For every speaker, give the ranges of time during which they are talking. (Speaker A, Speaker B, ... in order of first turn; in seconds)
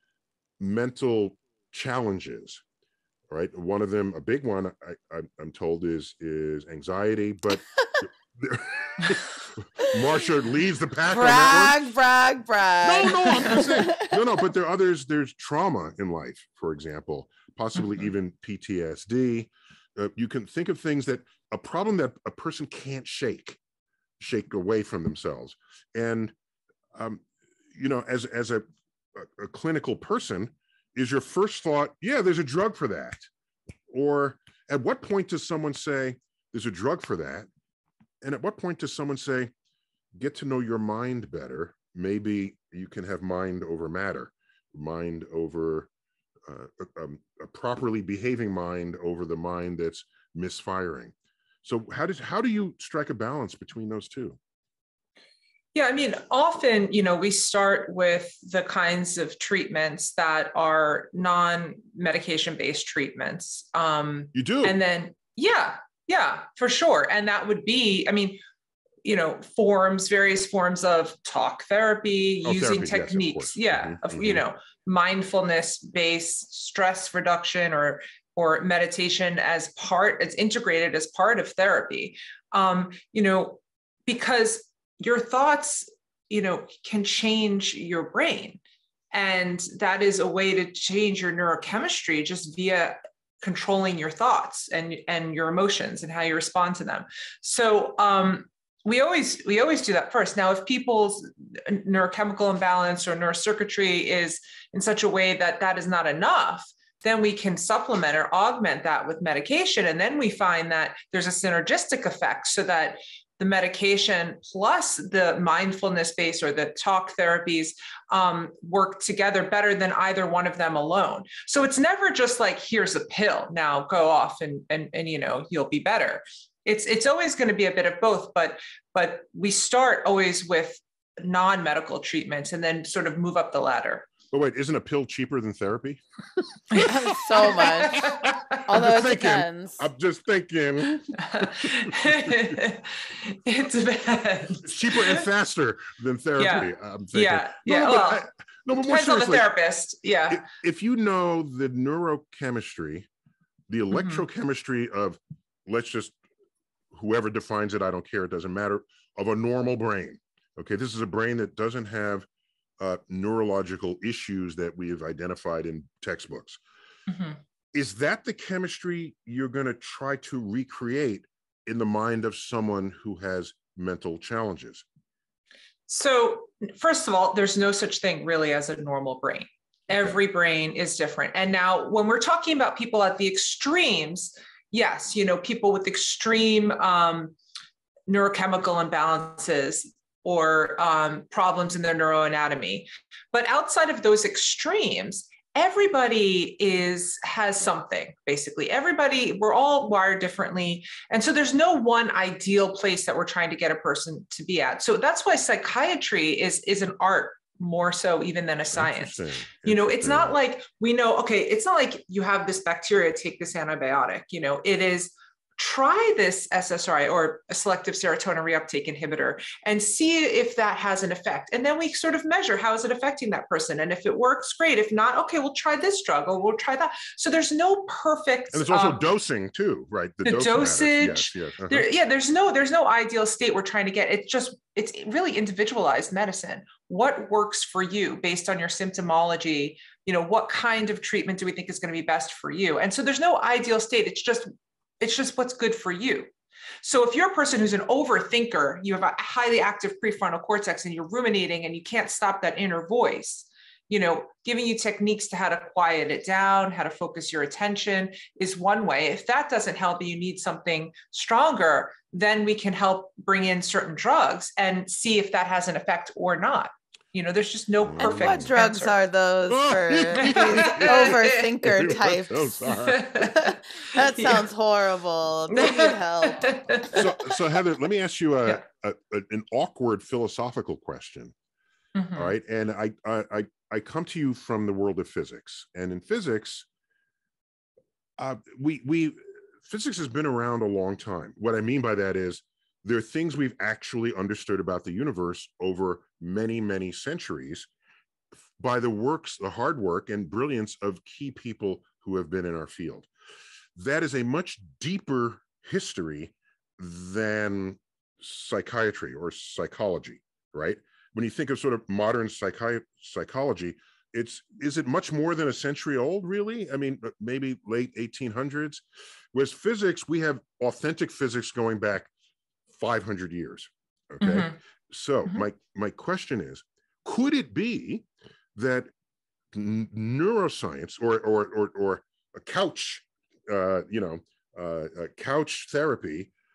Speaker A: 0.6-2.6, 3.3-11.8, 12.8-23.6, 24.2-26.3, 26.9-33.3, 33.9-37.5, 38.2-39.5, 40.1-45.9, 46.5-54.4, 64.3-64.8, 72.4-74.4, 134.3-142.6, 144.6-149.5, 150.3-153.1, 153.7-156.2, 156.9-162.3, 162.8-166.6, 167.7-174.8, 208.7-210.4, 228.5-231.9, 267.8-268.5, 269.5-273.3, 276.9-281.3, 282.1-286.7, 288.2-297.7, 298.6-303.1, 303.8-322.1, 322.7-328.9, 329.5-336.3
Speaker B: 11.1-14.2, 136.8-138.1, 138.6-139.8, 268.0-276.5
Speaker C: 55.7-68.4, 69.0-88.6, 89.1-134.1, 136.7-138.6, 141.1-145.2, 146.4-150.4, 153.9-154.2, 167.1-167.4, 175.9-187.3, 188.1-229.0, 230.2-244.5, 245.0-246.3, 246.8-268.9, 270.2-271.5, 272.7-274.4, 275.5-277.3, 281.9-282.3, 324.2-324.6